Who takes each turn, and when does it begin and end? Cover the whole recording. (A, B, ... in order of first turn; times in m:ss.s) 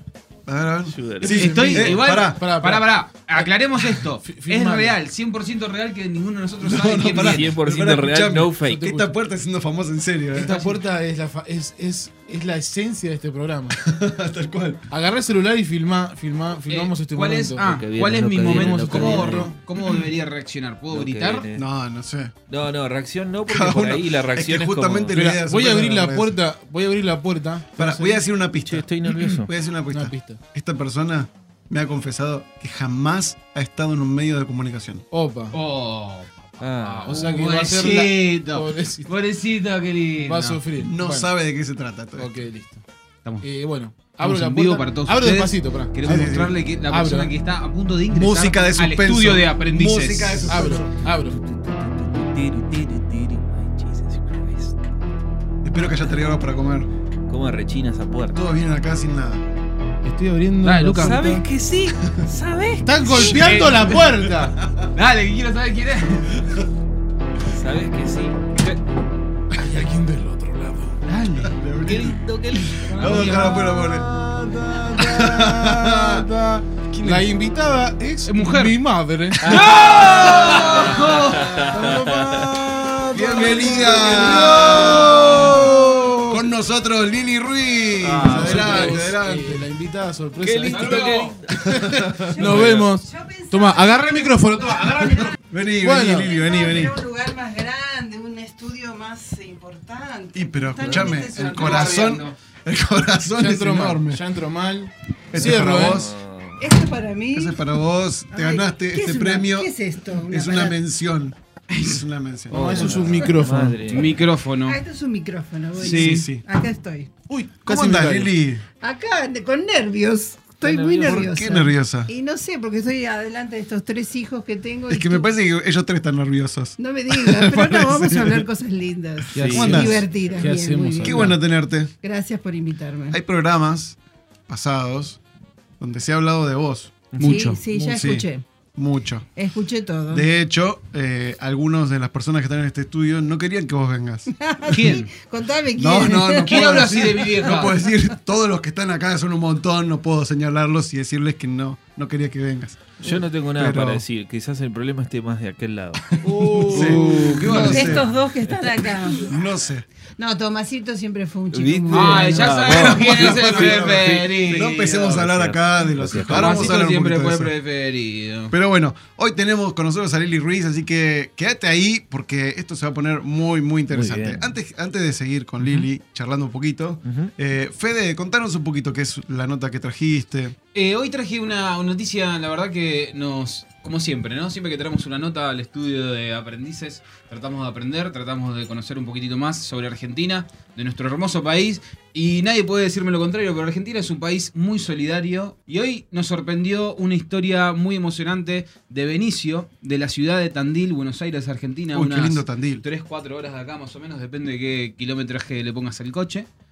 0:00.5-0:02.5 A
0:00.9-0:01.9 B
0:01.2-0:07.6 C
0:01.2-0:03.5 D
0:04.2-0:05.0 D
0:06.6-0:10.6 A
0:07.1-0:08.9 B
0:08.6-0:09.1 D
0:10.4-0:10.8 C
0:10.4-0:13.8 D
0:13.7-0:14.8 A
0:14.9-0:17.7 D
0:16.7-0:21.4 C
0:17.6-0:19.5 B
0:18.4-0:19.6 D
0:19.1-0:19.5 A
0:20.9-0:21.6 B
0:21.6-0:22.4 A
0:22.5-0:25.2 B
0:23.5-0:26.4 A
0:25.1-0:28.2 D
0:27.8-0:35.0 A
0:28.6-0:29.5 B
0:29.9-0:30.4 D
0:35.1-0:35.6 D
0:35.5-0:40.6 C
0:36.6-0:37.6 B
0:37.1-0:39.1 D
0:40.2-0:41.3 D
0:40.8-0:42.3 A
0:42.2-0:42.8 D
0:43.2-0:43.5 C
0:43.4-0:47.3 D
0:44.1-0:50.6 C
0:46.0-0:46.5 A
0:48.1-0:50.9 A
0:50.5-0:51.4 D
0:51.4-0:54.8 B
0:55.6-0:56.9 A
0:57.3-0:58.4 B
0:58.3-0:59.5 A
1:00.0-1:01.5 D
1:00.6-1:01.4 C
1:01.0-1:03.5 B
1:02.8-1:04.6 D
1:03.2-1:04.0 C
1:04.6-1:04.9 A
1:05.0-1:06.3 C
1:07.5-1:08.8 B
1:09.5-1:11.0 D
1:11.1-1:11.6 C
1:11.4-1:12.2 A
1:11.8-1:13.1 B
1:12.8-1:14.2 A
1:13.0-1:21.2 D
1:13.0-1:13.6 C
1:14.9-1:16.3 A
1:16.9-1:17.4 A
1:18.3-1:18.8 C
1:19.4-1:21.5 C
1:19.4-1:22.5 B
1:19.9-1:20.9 A
1:21.7-1:26.4 D
1:23.1-1:29.7 A
1:28.1-1:29.0 B
1:28.2-1:36.3 D
1:30.4-1:32.8 B
1:30.7-1:31.4 C
1:32.4-1:35.3 E
1:35.5-1:37.0 A
1:36.2-1:42.0 E
1:40.3-1:44.2 A
1:41.2-1:42.4 C
1:43.4-1:46.1 D
1:45.3-1:46.1 A
1:45.7-1:46.6 B
1:46.6-1:47.6 E
1:47.3-1:49.7 A
1:48.3-1:50.8 E
1:50.3-1:53.3 A
1:52.5-1:53.9 D
1:52.5-1:54.2 B
1:53.9-1:54.8 C
1:54.7-1:57.1 E
1:55.8-1:56.2 C
1:55.8-1:56.4 A
1:55.9-1:56.2 D
1:57.3-1:58.3 D
1:57.6-1:58.6 A
1:58.8-2:05.3 E
2:00.6-2:01.3 B
2:01.0-2:02.1 A
2:04.9-2:08.5 A
2:06.8-2:11.4 E
2:09.3-2:11.4 D
2:09.4-2:10.1 A
2:09.4-2:09.9 B
2:11.0-2:11.9 A
2:12.0-2:13.2 E
2:13.1-2:15.2 A
2:15.8-2:17.1 A
2:17.1-2:17.5 B
2:17.2-2:17.6 C
2:17.2-2:18.4 E
2:17.8-2:19.3 A
2:19.4-2:20.3 E
2:20.1-2:25.0 A
2:24.4-2:27.0 E
2:24.7-2:25.1 C
2:25.8-2:34.0 A
2:26.4-2:27.8 C
2:33.0-2:38.7 B
2:36.2-2:38.1 A
2:36.2-2:37.6 D
2:37.0-2:37.9 C
2:37.4-2:39.3 E
2:39.3-2:39.8 A
2:40.2-2:42.8 E
2:41.5-2:46.8 B
2:41.9-2:45.1 C
2:42.7-2:47.5 A
2:46.3-2:48.6 C
2:48.5-3:00.6 A
2:53.9-2:54.5 B
2:57.1-2:57.3 B
3:00.7-3:26.5 C
3:21.9-3:22.8 A